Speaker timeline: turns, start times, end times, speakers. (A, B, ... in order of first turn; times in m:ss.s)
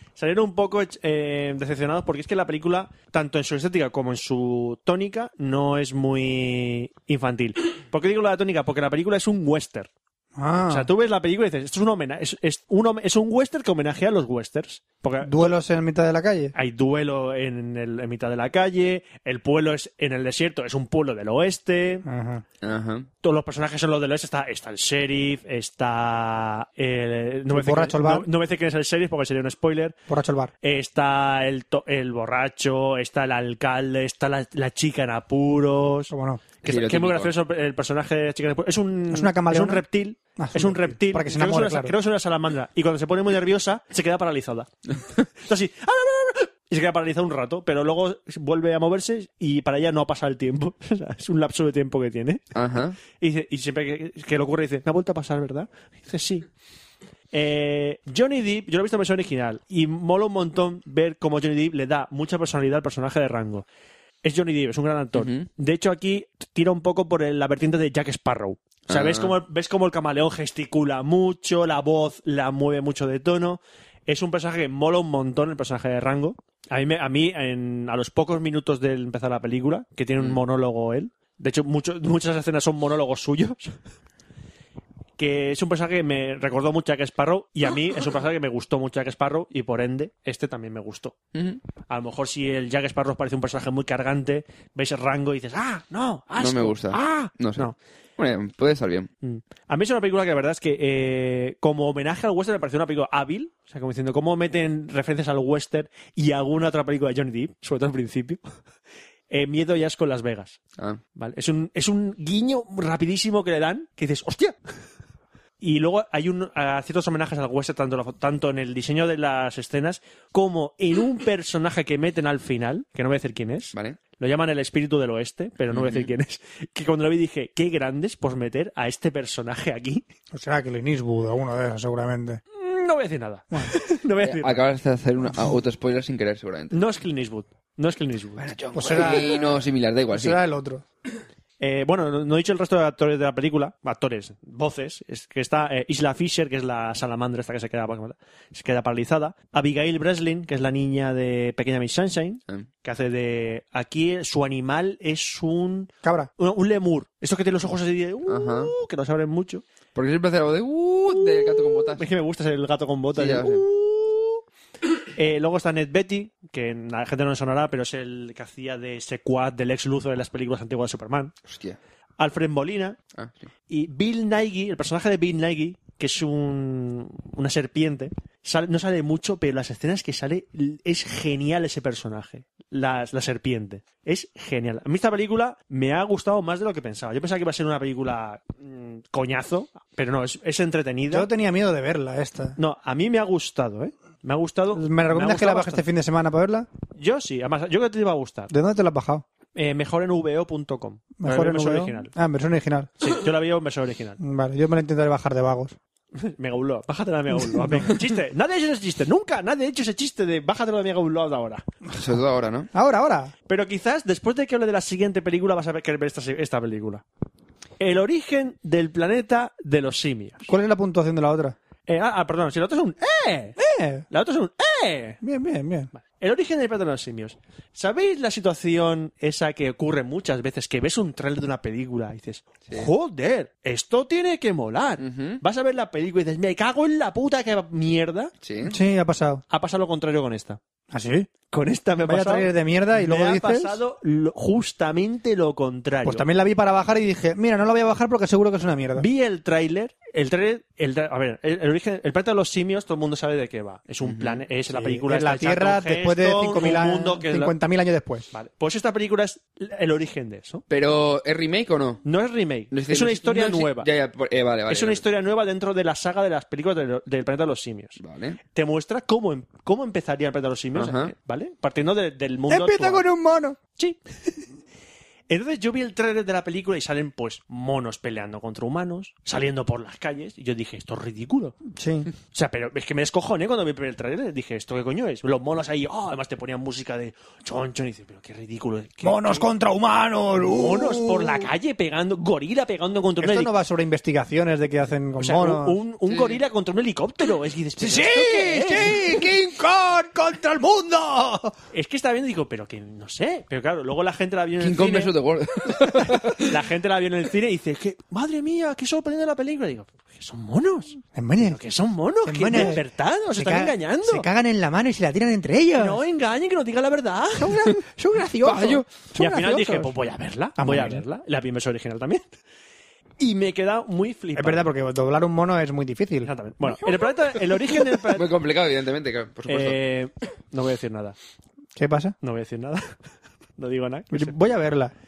0:00.2-0:09.9 A
0:10.4-0:10.9 B
0:10.7-0:15.4 A
0:15.2-0:16.5 B
0:16.6-0:22.0 A
0:22.0-0:22.4 B
0:22.6-0:23.1 C
0:23.2-0:30.0 A
0:27.5-0:28.3 B
0:30.1-0:30.5 B
0:30.6-0:36.1 A
0:36.1-0:36.4 B
0:36.6-0:44.7 A
0:36.6-0:37.3 C
0:39.1-0:39.8 B
0:40.4-0:41.9 B
0:45.4-0:52.5 A
0:52.6-0:53.0 C
0:53.1-0:56.4 A
0:57.3-1:03.6 A
1:04.2-1:23.7 A
1:05.1-1:05.5 C
1:08.9-1:09.4 C
1:25.2-1:31.1 A
1:31.3-1:31.6 C
1:31.9-1:37.7 A
1:36.4-1:39.1 C
1:39.2-1:48.4 A
1:49.3-1:50.6 A
1:51.2-1:54.6 A
1:55.6-2:10.0 A
2:05.7-2:06.1 C
2:10.3-2:12.4 B
2:12.5-2:14.6 A
2:14.2-2:16.8 C
2:16.7-2:19.3 A
2:18.4-2:20.4 C
2:18.7-2:19.6 B
2:20.1-2:20.8 B
2:21.6-2:39.6 A
2:36.0-2:36.3 B
2:38.3-2:38.7 C
2:40.0-2:42.0 C
2:41.2-2:44.4 A
2:43.1-2:43.6 C
2:45.2-2:51.3 A
2:51.5-2:51.8 C
2:52.2-2:53.0 A
2:53.2-2:53.5 C
2:53.7-3:11.3 A
3:11.1-3:12.6 B
3:12.6-3:15.8 A
3:14.7-3:16.7 B
3:17.0-3:18.5 A
3:18.5-3:19.2 B
3:19.6-3:22.1 A
3:21.2-3:22.9 B
3:23.0-3:24.2 A
3:24.2-3:25.8 B
3:26.2-3:31.6 A
3:27.3-3:28.0 B
3:32.0-3:32.7 C
3:32.7-3:33.3 B
3:33.5-3:37.0 A
3:37.8-3:40.5 A
3:40.5-3:41.6 B
3:41.9-3:43.6 A
3:43.6-3:44.0 B
3:44.1-3:45.2 A
3:45.2-3:45.9 B
3:46.0-3:58.3 A
3:55.0-3:55.4 C
3:58.4-3:58.7 C
3:58.6-3:59.4 B
3:59.5-4:00.6 A
4:00.9-4:01.3 B
4:01.5-4:06.3 A
4:02.0-4:03.8 B
4:06.0-4:09.0 B
4:09.0-4:17.6 A
4:14.0-4:14.4 C
4:14.7-4:18.3 B
4:18.3-4:20.6 A
4:20.7-4:22.0 C
4:22.0-4:23.9 A
4:22.7-4:25.0 C
4:24.7-4:33.0 A
4:28.0-4:28.4 C
4:30.7-4:31.1 C
4:32.5-4:33.6 B
4:35.3-4:41.6 A
4:41.7-4:42.1 B
4:42.3-4:49.4 A
4:49.0-4:51.5 B
4:50.5-4:53.5 A
4:53.2-4:55.8 B
4:55.2-4:59.0 A
4:56.1-4:56.4 C
4:57.8-5:01.6 B
5:01.7-5:05.1 A
5:04.6-5:06.5 C
5:06.4-5:14.3 A
5:11.1-5:11.6 B
5:12.2-5:12.8 B
5:13.4-5:16.0 B
5:15.8-5:17.6 A
5:17.4-5:19.9 B
5:18.4-5:18.9 C
5:19.2-5:22.2 A
5:20.6-5:21.0 B
5:23.2-5:24.7 A
5:24.4-5:26.3 B
5:26.2-5:28.3 A
5:28.1-5:29.8 C
5:29.5-5:31.1 A
5:31.8-5:32.2 B
5:32.2-5:32.9 A
5:33.6-5:34.4 A
5:34.1-5:34.9 B